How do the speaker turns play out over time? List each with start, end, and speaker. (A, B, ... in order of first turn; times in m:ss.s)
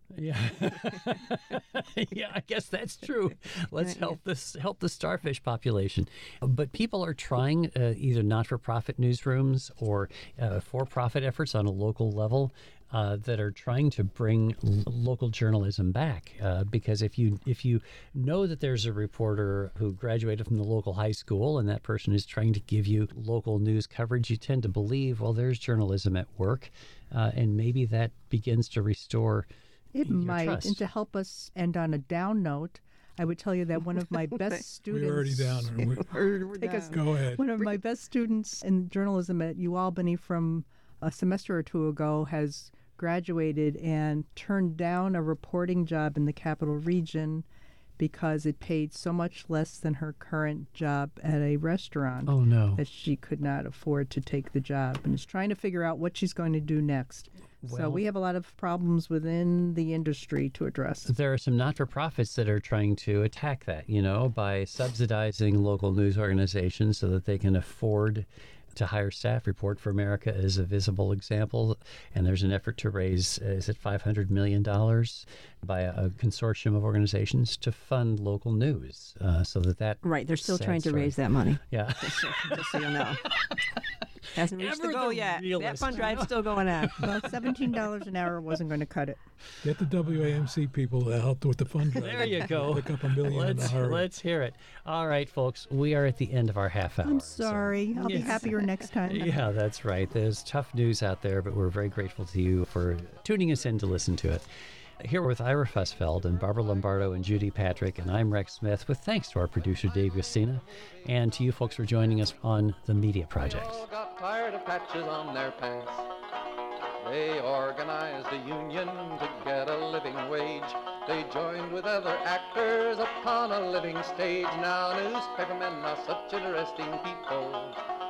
0:00.1-0:29.5 A
0:29.9-0:35.7 B
0:30.0-0:30.8 A
0:34.2-0:34.6 C
0:34.9-0:36.1 D
0:35.8-0:37.0 C
0:36.6-0:47.4 B
0:36.9-0:37.4 D
0:48.0-1:01.1 B
0:52.2-0:52.8 A
0:57.6-0:58.0 A
1:01.0-1:21.1 A
1:20.0-1:23.3 C
1:21.7-1:27.8 A
1:24.3-1:27.2 C
1:27.0-1:29.2 B
1:29.6-1:34.1 D
1:31.9-1:44.5 A
1:37.0-1:39.4 B
1:38.1-1:38.5 C
1:45.0-1:53.8 A
1:46.3-1:46.9 E
1:49.7-1:52.3 E
1:53.4-1:56.1 E
1:57.0-2:07.8 E